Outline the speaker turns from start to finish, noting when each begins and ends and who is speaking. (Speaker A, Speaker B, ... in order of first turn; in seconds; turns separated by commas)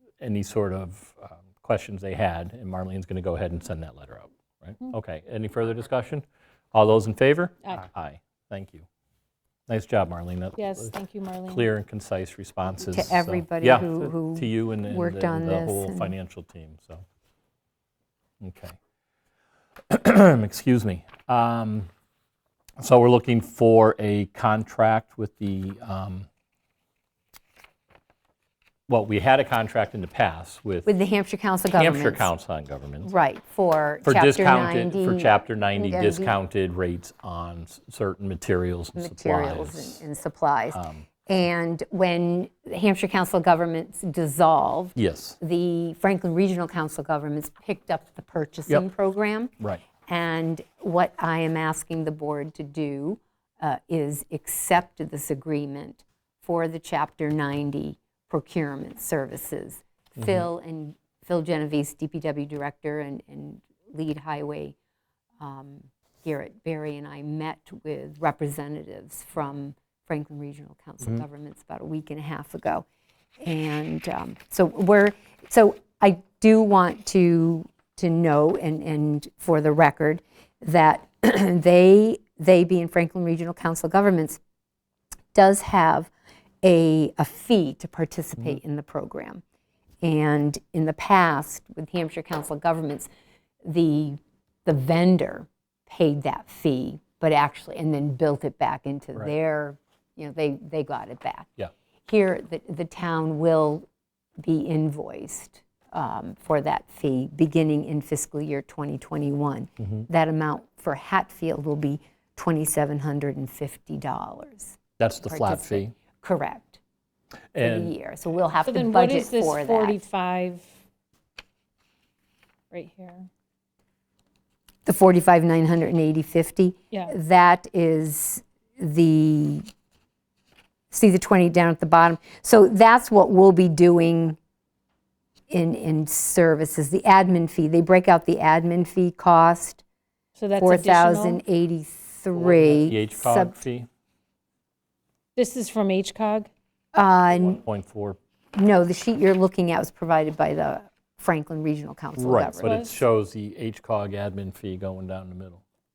Speaker A: 0.2-8.8, Speaker A: 9.7-10.9, Speaker B: 10.6-11.7, Speaker A: 11.5-17.0, Speaker C: 12.8-16.1, Speaker A: 18.4-18.8, Speaker A: 19.9-21.9, Speaker A: 22.8-26.3, Speaker A: 28.9-30.9, Speaker C: 30.9-32.3, Speaker A: 31.8-33.1, Speaker C: 33.0-36.4, Speaker A: 34.0-40.0, Speaker C: 39.0-49.5, Speaker A: 40.7-41.0, Speaker A: 45.0-45.4, Speaker C: 50.0-64.7, Speaker C: 65.4-72.8, Speaker C: 73.4-84.4, Speaker C: 85.3-86.1, Speaker C: 86.6-89.4, Speaker C: 90.0-93.1, Speaker C: 93.6-101.5, Speaker C: 102.1-103.8, Speaker C: 104.4-116.8, Speaker A: 115.0-115.9, Speaker A: 117.5-117.9, Speaker C: 117.6-120.0, Speaker B: 118.6-120.7, Speaker B: 122.7-123.3, Speaker C: 124.8-129.7, Speaker C: 130.9-134.4, Speaker C: 135.5-139.8, Speaker B: 140.3-141.4, Speaker C: 140.6-143.6, Speaker A: 142.3-143.9, Speaker B: 145.3-146.5, Speaker C: 146.9-147.6, Speaker A: 147.3-148.2, Speaker C: 148.5-152.7, Speaker A: 152.2-155.6, Speaker B: 152.6-153.0